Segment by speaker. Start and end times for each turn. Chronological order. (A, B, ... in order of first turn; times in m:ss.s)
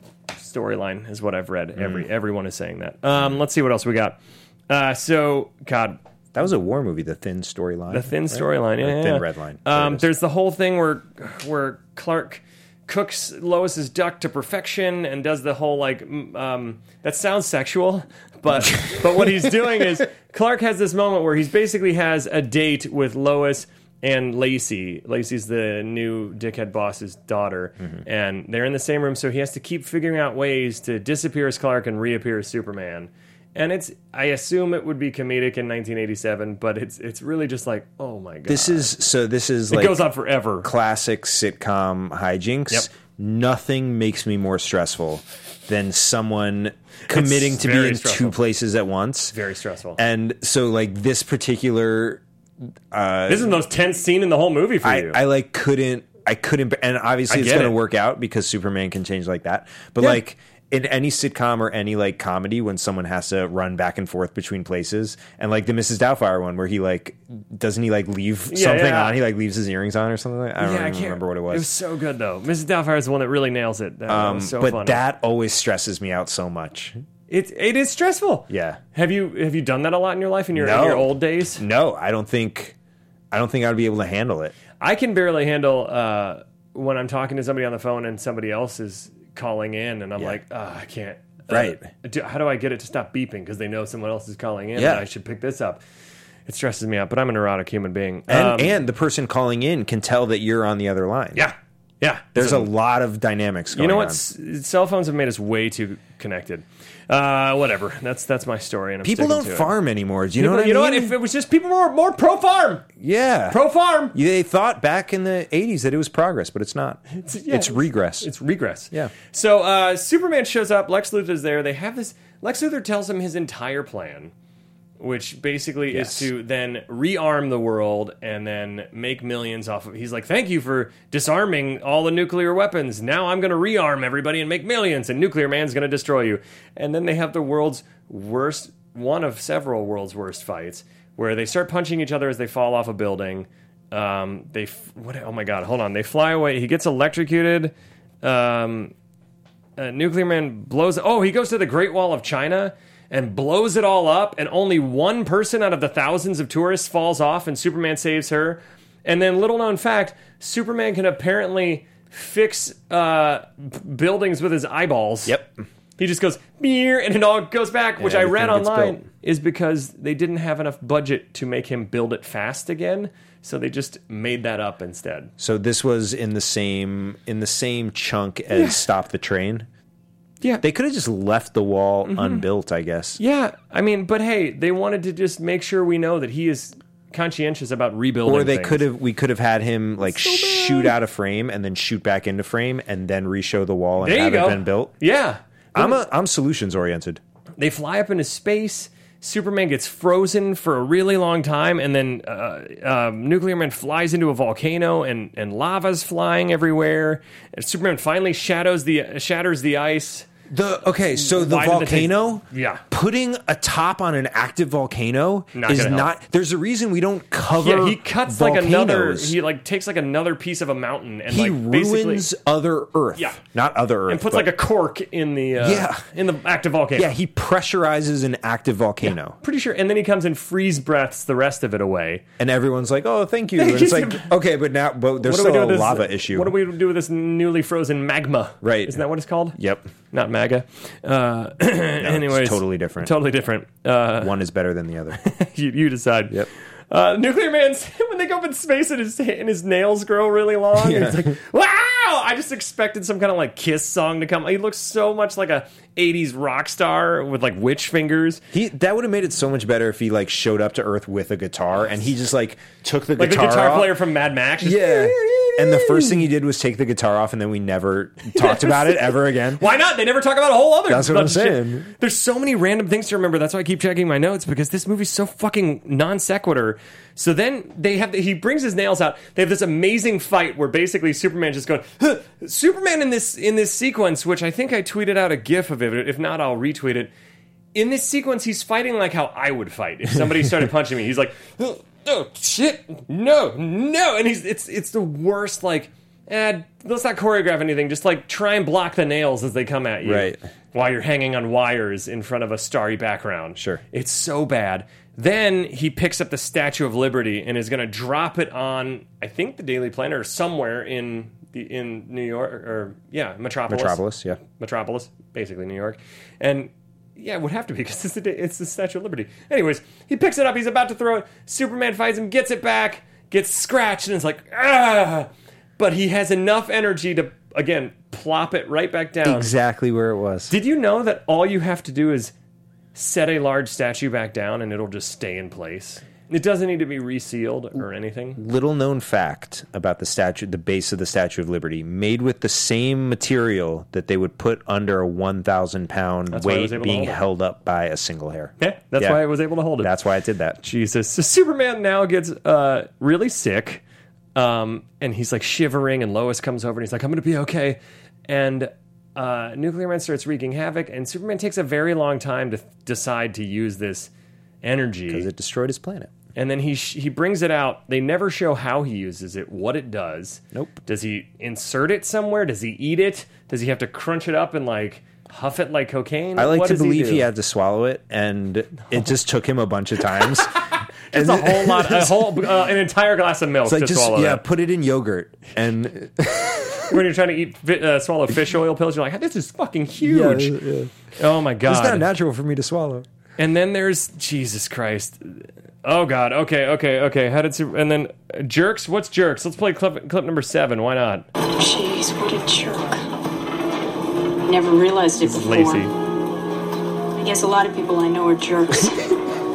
0:00.4-0:04.2 A
0:01.8-0:02.1 B
0:04.7-0:06.0 A
0:06.3-0:10.1 B
0:07.9-0:38.9 A
0:38.5-0:40.0 B
0:39.7-0:40.7 A
0:40.6-0:49.4 B
0:47.1-0:48.4 A
0:49.3-0:50.0 A
0:50.0-0:52.2 B
0:52.9-0:53.6 B
0:53.3-0:55.2 A
0:54.8-1:11.7 B
0:57.3-0:57.8 A
1:08.5-1:09.2 A
1:10.6-1:15.0 A
1:14.1-1:17.0 B
1:17.3-1:21.6 A
1:18.5-1:18.8 B
1:20.6-1:22.8 B
1:23.3-1:24.5 B
1:24.8-1:35.8 A
1:31.5-1:31.9 B
1:34.8-1:35.0 B
1:36.5-1:38.8 A
1:38.3-1:41.5 B
1:41.4-1:42.7 A
1:42.4-1:44.2 B
1:43.7-1:49.7 A
1:49.0-1:51.2 B
1:50.4-1:52.9 A
1:53.0-1:53.6 B
1:53.5-1:54.2 A
1:54.1-1:58.3 B
1:57.1-2:04.3 A
2:05.0-2:28.9 A
2:05.9-2:06.3 B
2:29.8-2:45.4 A
2:45.3-2:45.6 B
2:46.0-2:55.3 A
2:48.0-2:49.0 B
2:55.4-2:59.7 B
2:58.5-2:58.8 A
3:00.6-3:03.2 B
3:02.1-3:02.4 A
3:03.2-3:08.8 A
3:08.2-3:14.9 B
3:10.1-3:11.0 A
3:14.0-3:16.0 A
3:15.8-3:17.2 B
3:17.6-3:30.3 A
3:30.5-3:39.4 B
3:31.1-3:32.8 A
3:35.5-3:36.1 A
3:37.6-3:42.3 A
3:41.3-3:44.5 B
3:44.1-3:47.1 A
3:45.6-3:46.0 B
3:47.0-3:49.4 B
3:49.0-3:52.2 A
3:52.4-3:56.6 B
3:53.6-3:54.3 A
3:55.2-3:59.6 A
3:58.6-3:59.0 B
3:59.6-3:59.9 B
4:00.1-4:04.3 A
4:02.0-4:03.1 B
4:04.2-4:05.2 B
4:05.2-4:06.4 A
4:06.9-4:18.4 A
4:10.8-4:11.4 B
4:18.5-4:24.0 B
4:23.2-4:26.2 A
4:24.6-4:29.6 B
4:28.4-4:47.1 A
4:30.9-4:31.9 B
4:47.7-5:29.5 A
5:00.0-5:00.4 B
5:03.6-5:03.8 B
5:13.7-5:14.4 B
5:29.2-5:30.5 B
5:30.5-5:32.3 A
5:33.0-5:38.4 A
5:38.4-5:49.2 B
5:46.3-5:47.2 A
5:48.6-5:49.9 A
5:49.8-5:50.6 B
5:50.6-5:53.8 A
5:54.4-6:04.1 A
6:04.6-6:05.3 A
6:05.1-6:06.1 B
6:06.4-6:17.3 A
6:10.5-6:10.8 B
6:16.4-6:22.4 B
6:21.1-6:24.4 A
6:23.6-6:27.0 B
6:26.9-6:30.6 A
6:30.0-6:30.9 B
6:31.2-6:32.1 A
6:31.6-6:33.1 B
6:33.4-6:41.3 A
6:41.6-6:43.0 C
6:44.5-6:45.9 C
6:45.2-6:45.9 A
6:47.2-6:49.1 C